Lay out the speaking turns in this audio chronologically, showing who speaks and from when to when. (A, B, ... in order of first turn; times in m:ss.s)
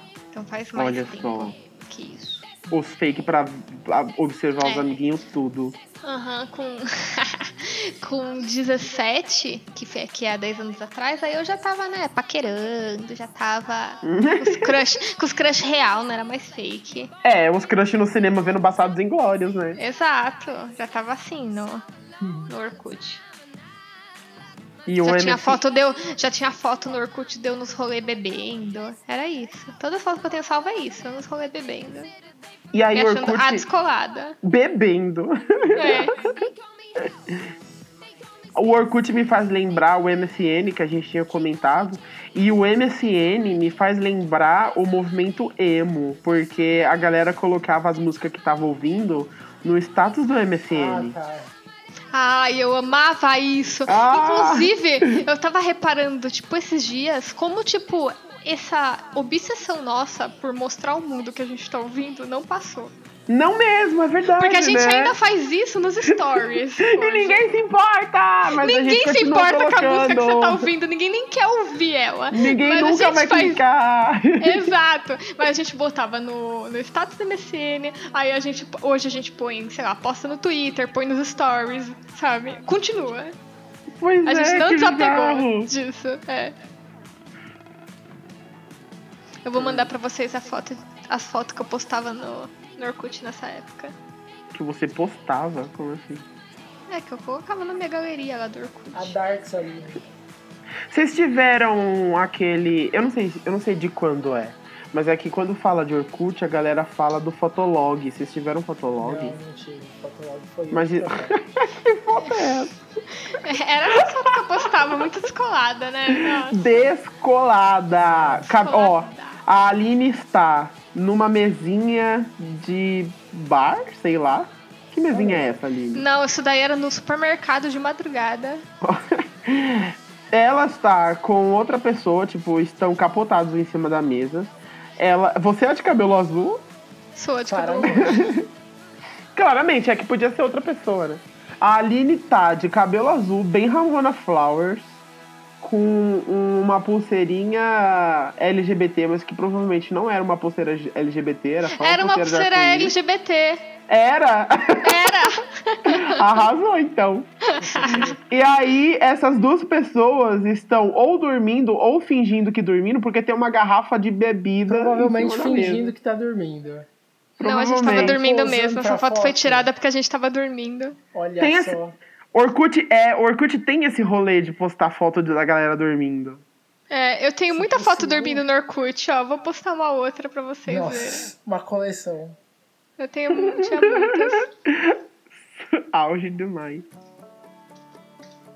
0:00.3-0:02.5 A
0:00.8-0:01.6 B
0:02.7-0:05.8 B
0:04.6-0:04.9 A
0:06.0-0:17.1 A
0:14.0-0:14.8 B
0:17.2-0:19.8 B
0:19.8-0:21.9 A
0:22.2-0:22.5 C
0:22.5-0:23.2 A
0:24.9-0:25.6 B
0:25.0-0:32.1 A
0:32.7-0:33.6 B
0:32.9-0:34.4 A
0:34.4-0:36.1 B
0:35.8-0:36.3 A
0:38.6-0:51.2 B
0:50.7-0:51.5 C
0:52.1-1:02.9 A
0:53.9-0:55.2 B
1:03.3-1:05.1 B
1:04.4-1:07.5 A
1:06.8-1:10.7 B
1:08.6-1:13.6 A
1:12.3-1:14.7 B
1:14.4-1:23.4 A
1:24.0-1:25.7 B
1:24.2-1:26.6 A
1:29.4-1:33.9 A
1:29.6-1:29.9 B
1:34.5-1:36.3 B
1:36.9-1:39.2 A
1:38.9-1:40.0 C
1:40.9-1:49.4 B
1:49.0-1:51.4 C
1:50.7-1:52.7 B
1:53.2-1:56.9 A
1:56.1-2:06.0 B
1:58.0-1:58.5 C
1:58.5-1:59.4 A
2:05.1-2:05.6 C
2:05.9-2:08.6 A
2:08.8-2:16.6 B
2:17.2-2:18.2 A
2:17.5-2:18.4 C
2:17.9-2:18.4 B
2:19.4-2:25.0 B
2:25.6-2:33.0 B
2:31.7-2:33.7 A
2:33.9-2:35.3 B
2:34.8-2:36.2 A
2:35.8-2:37.3 B
2:37.4-2:38.1 A
2:37.8-2:38.1 C
2:37.8-2:45.9 B
2:44.7-2:46.9 C
2:47.4-2:48.2 B
2:47.4-2:51.0 A
2:47.8-2:49.7 C
2:51.1-2:52.0 C
2:51.4-2:51.8 B
2:52.3-2:56.4 B
2:56.9-3:01.3 A
2:57.5-2:58.4 C
3:00.7-3:02.4 C
3:03.0-3:04.5 A
3:03.4-3:05.0 B
3:05.6-3:06.8 B